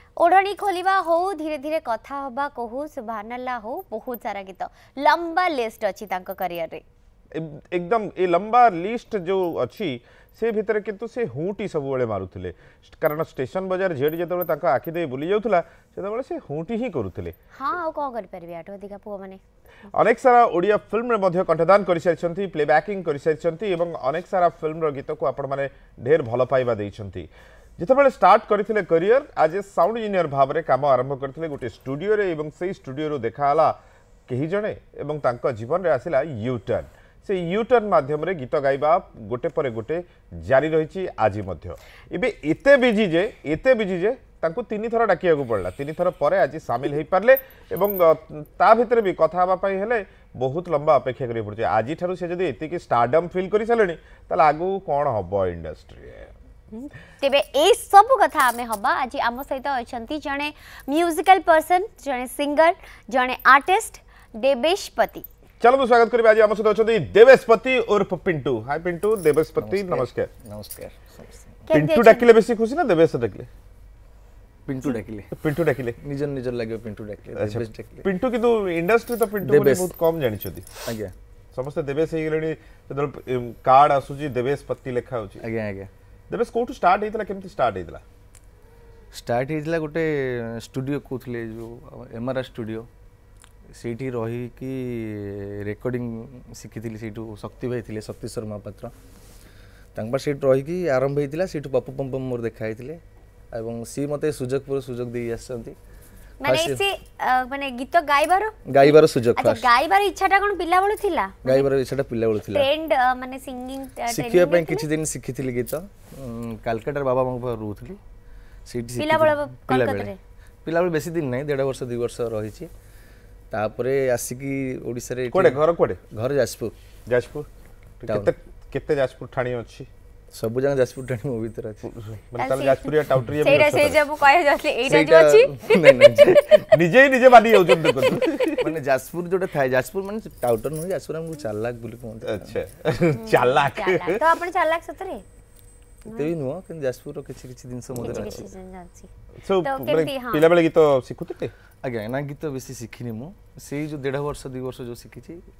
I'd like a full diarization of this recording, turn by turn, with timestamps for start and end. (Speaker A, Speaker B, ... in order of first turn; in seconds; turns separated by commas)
Speaker A: 0.2-6.8, Speaker B: 7.3-17.4, Speaker A: 17.5-19.4, Speaker B: 19.9-33.8, Speaker B: 34.3-56.3, Speaker A: 56.7-65.2, Speaker B: 65.6-70.3, Speaker C: 69.6-71.6, Speaker A: 71.7-72.2, Speaker B: 71.7-73.5, Speaker C: 74.7-75.3, Speaker B: 75.3-76.0, Speaker C: 76.0-78.1, Speaker B: 77.4-80.7, Speaker C: 79.4-79.9, Speaker C: 80.8-81.1, Speaker B: 81.5-85.4, Speaker C: 85.4-85.9, Speaker B: 86.3-88.0, Speaker C: 89.1-92.9, Speaker C: 93.7-98.9, Speaker C: 99.9-103.0, Speaker C: 103.5-105.8, Speaker A: 106.4-111.7, Speaker C: 106.4-106.8, Speaker C: 108.7-109.7, Speaker C: 111.4-112.7, Speaker A: 112.5-114.8, Speaker C: 114.1-118.0, Speaker C: 118.7-120.1, Speaker A: 119.0-120.2, Speaker C: 120.6-122.7, Speaker C: 123.5-126.8, Speaker B: 125.3-126.0, Speaker B: 127.1-127.5, Speaker B: 128.0-129.9, Speaker C: 128.1-128.3, Speaker C: 130.3-131.8, Speaker B: 131.9-134.0, Speaker A: 132.4-136.6, Speaker C: 134.8-136.6, Speaker B: 136.7-138.6, Speaker A: 137.8-138.5, Speaker C: 138.6-142.5, Speaker B: 142.2-144.2, Speaker A: 143.2-145.2, Speaker C: 146.1-148.5, Speaker A: 147.9-149.1, Speaker B: 148.0-148.3, Speaker B: 149.4-151.5, Speaker A: 149.6-150.5, Speaker C: 151.8-155.4